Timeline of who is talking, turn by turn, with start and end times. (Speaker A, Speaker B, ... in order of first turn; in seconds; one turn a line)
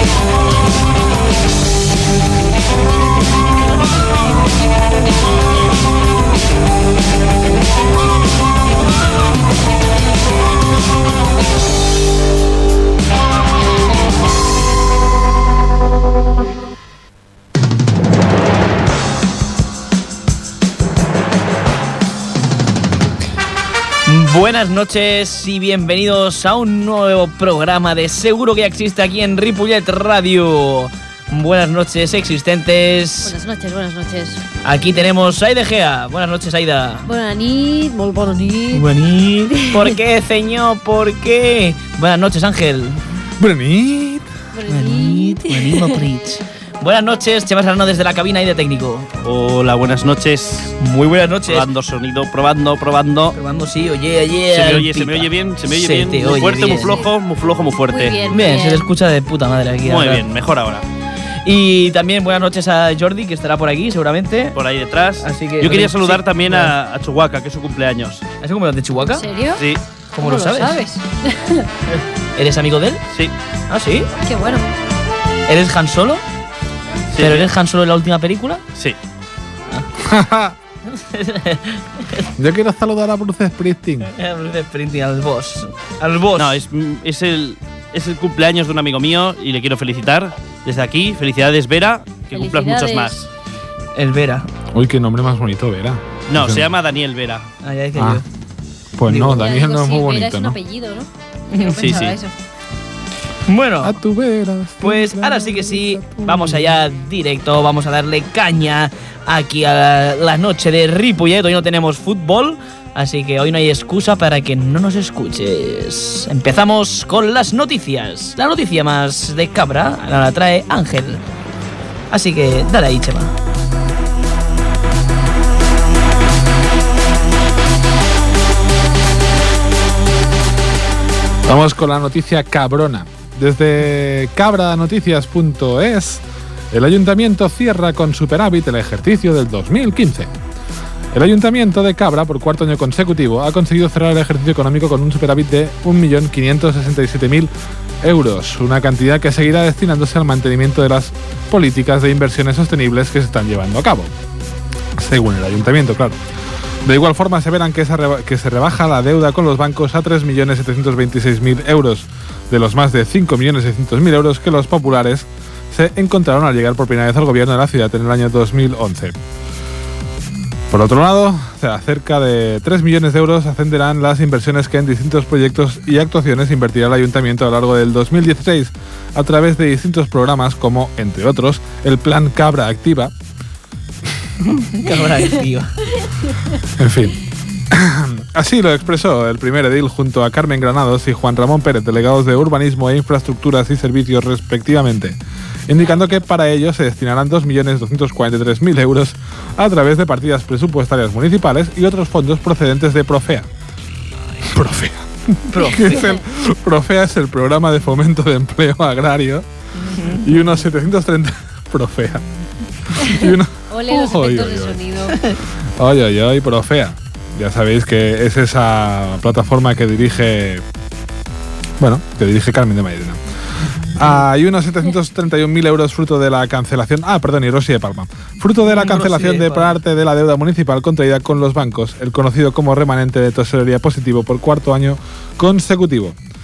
Speaker A: 24.1-33.3
Speaker B: 33.2-34.4
Speaker A: 34.6-37.1
Speaker B: 37.1-38.9
Speaker A: 38.7-43.0
Speaker B: 39.5-40.0
Speaker C: 43.4-44.3
Speaker B: 44.5-46.0
Speaker A: 44.7-49.2
Speaker D: 49.2-50.8
Speaker A: 50.8-51.7
Speaker D: 51.5-53.4
Speaker A: 53.4-57.0
Speaker D: 54.5-58.4
Speaker B: 56.6-57.1
Speaker B: 57.9-58.9
Speaker A: 58.3-60.2
Speaker D: 59.8-60.9
Speaker A: 61.5-64.6
Speaker D: 64.5-68.2
Speaker A: 65.2-66.8
Speaker A: 68.4-69.2
Speaker B: 69.1-69.6
Speaker D: 69.6-69.8
Speaker A: 70.1-70.8
Speaker B: 70.2-71.7
Speaker A: 71.9-73.0
Speaker A: 73.7-74.1
Speaker B: 74.2-74.7
Speaker A: 75.5-76.2
Speaker D: 77.1-77.5
Speaker A: 77.2-78.6
Speaker C: 80.0-80.6
Speaker A: 80.9-82.3
Speaker C: 82.4-84.1
Speaker A: 84.0-86.6
Speaker D: 86.4-93.3
Speaker B: 92.3-93.2
Speaker A: 94.0-94.5
Speaker C: 94.7-96.7
Speaker D: 96.3-97.5
Speaker A: 97.6-98.2
Speaker C: 98.0-98.2
Speaker C: 99.0-100.6
Speaker A: 99.1-99.5
Speaker B: 99.4-102.3
Speaker A: 101.5-101.9
Speaker D: 101.8-102.2
Speaker A: 103.5-104.0
Speaker C: 103.8-106.8
Speaker A: 104.8-121.2
Speaker A: 122.1-123.3
Speaker C: 131.4-140.3
Speaker C: 141.1-147.5
Speaker C: 148.0-154.1
Speaker C: 155.0-156.2
Speaker C: 156.8-169.2
Speaker C: 170.7-183.1
Speaker A: 184.4-185.7
Speaker B: 185.0-185.3
Speaker B: 186.2-186.5
Speaker C: 186.8-187.2
Speaker C: 187.7-203.5
Speaker C: 204.4-209.5
Speaker A: 205.5-206.2
Speaker B: 205.8-206.2
Speaker A: 209.8-210.3
Speaker C: 210.1-212.3
Speaker C: 212.9-214.8
Speaker B: 213.0-215.2
Speaker A: 215.1-215.4
Speaker C: 215.8-220.6
Speaker C: 221.8-223.2
Speaker C: 223.9-236.2
Speaker A: 228.6-229.7